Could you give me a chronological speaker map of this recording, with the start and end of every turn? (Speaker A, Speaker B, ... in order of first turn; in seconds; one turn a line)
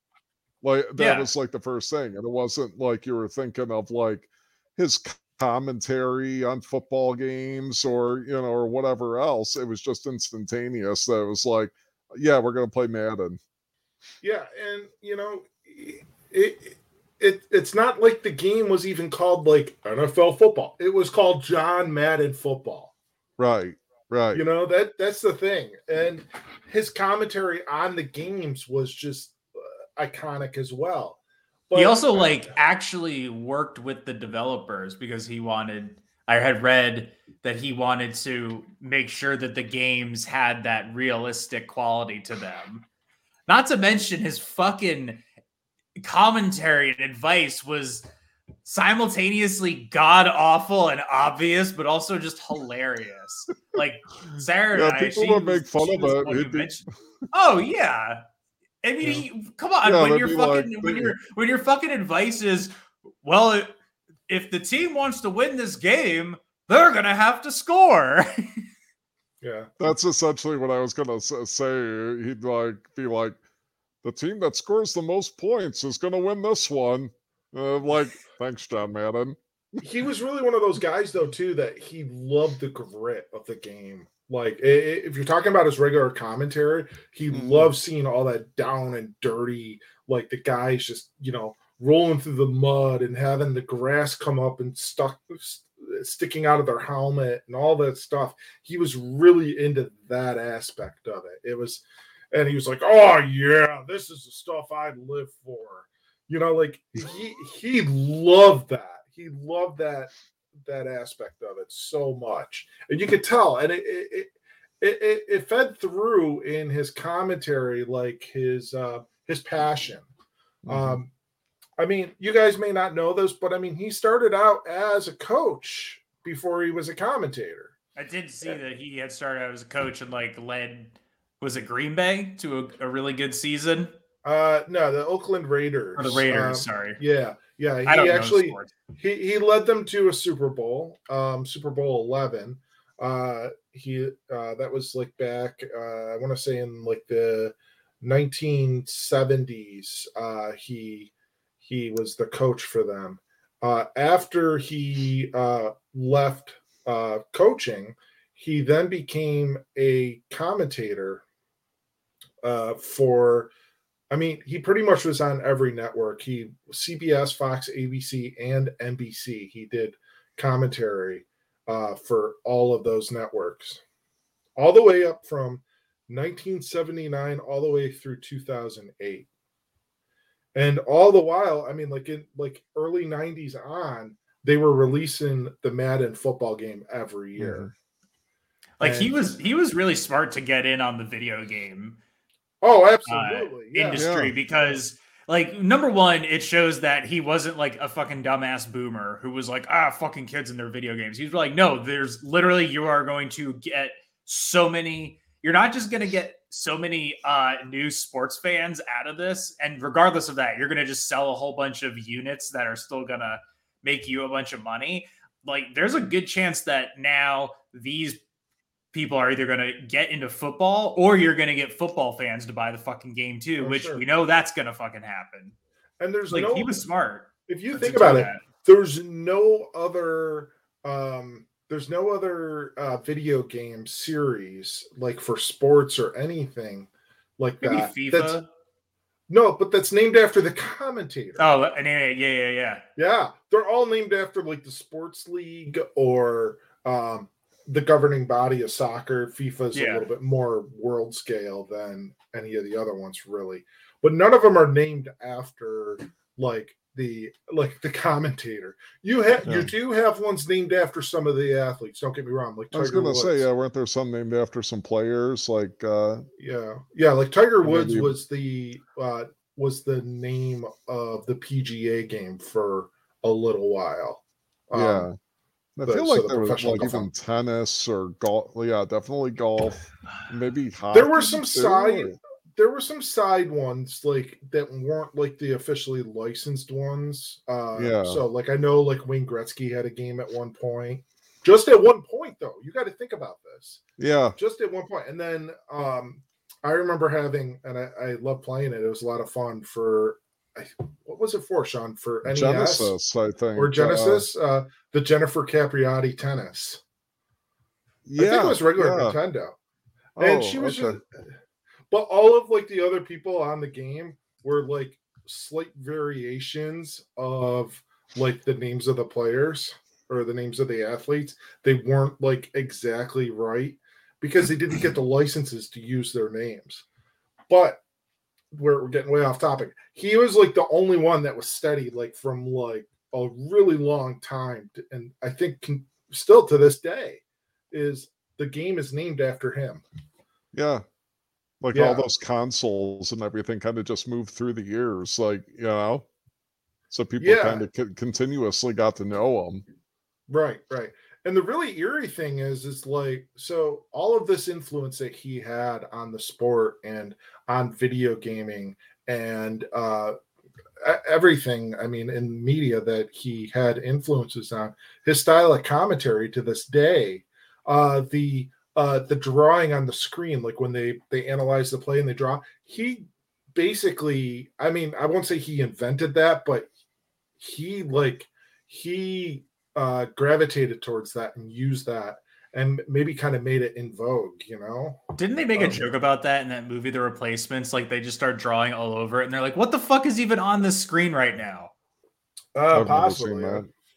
Speaker A: 0.6-13.4
Speaker B: 1.0-1.3
Speaker C: 14.2-22.9
Speaker A: 23.4-24.4
Speaker C: 24.3-31.2
Speaker C: 31.7-32.5
Speaker B: 31.7-42.8
Speaker B: 43.5-45.2
Speaker B: 46.0-48.0
Speaker B: 48.6-58.2
Speaker A: 54.7-56.7
Speaker B: 58.8-63.7
Speaker A: 59.8-61.1
Speaker B: 64.3-68.6
Speaker C: 69.4-69.7
Speaker A: 69.8-73.4
Speaker A: 74.0-79.8
Speaker C: 79.8-110.1
Speaker A: 87.3-87.7
Speaker C: 110.6-120.1
Speaker A: 120.7-121.0
Speaker C: 120.7-121.1
Speaker C: 121.8-127.7
Speaker B: 128.0-133.9
Speaker C: 134.2-151.1
Speaker B: 135.9-137.0
Speaker B: 137.8-138.7
Speaker C: 151.6-161.2
Speaker C: 162.4-163.5
Speaker C: 164.1-173.8
Speaker C: 174.6-179.3
Speaker C: 180.5-187.7
Speaker A: 187.4-187.7
Speaker B: 188.8-192.0
Speaker C: 188.8-189.3
Speaker C: 192.6-194.1
Speaker B: 193.1-218.2
Speaker A: 193.9-194.3
Speaker B: 218.9-225.5
Speaker C: 223.6-224.0
Speaker C: 226.0-226.8
Speaker B: 226.3-228.4
Speaker C: 227.5-238.4
Speaker B: 237.6-238.4
Speaker C: 239.3-241.5
Speaker B: 241.4-242.8
Speaker C: 243.0-263.4
Speaker B: 249.7-250.1
Speaker A: 259.4-259.7
Speaker A: 262.7-266.2
Speaker C: 266.4-275.1
Speaker A: 267.6-268.1
Speaker A: 274.7-275.1
Speaker A: 275.8-282.1
Speaker C: 275.9-277.1
Speaker C: 280.9-293.8
Speaker A: 287.7-288.2
Speaker A: 294.0-294.4
Speaker C: 294.4-302.9
Speaker A: 302.2-304.3
Speaker C: 303.6-306.8
Speaker A: 308.1-309.2
Speaker C: 308.2-309.5
Speaker A: 310.2-311.0
Speaker C: 310.2-311.2
Speaker C: 311.9-326.8
Speaker C: 327.5-327.8
Speaker C: 328.5-339.8
Speaker A: 340.5-340.8
Speaker A: 341.6-346.1
Speaker C: 341.7-342.1
Speaker A: 346.9-349.6
Speaker C: 347.2-347.6
Speaker C: 350.3-360.2
Speaker C: 360.8-376.7
Speaker C: 377.4-385.0
Speaker B: 385.1-391.7
Speaker C: 392.5-393.7
Speaker A: 392.7-393.7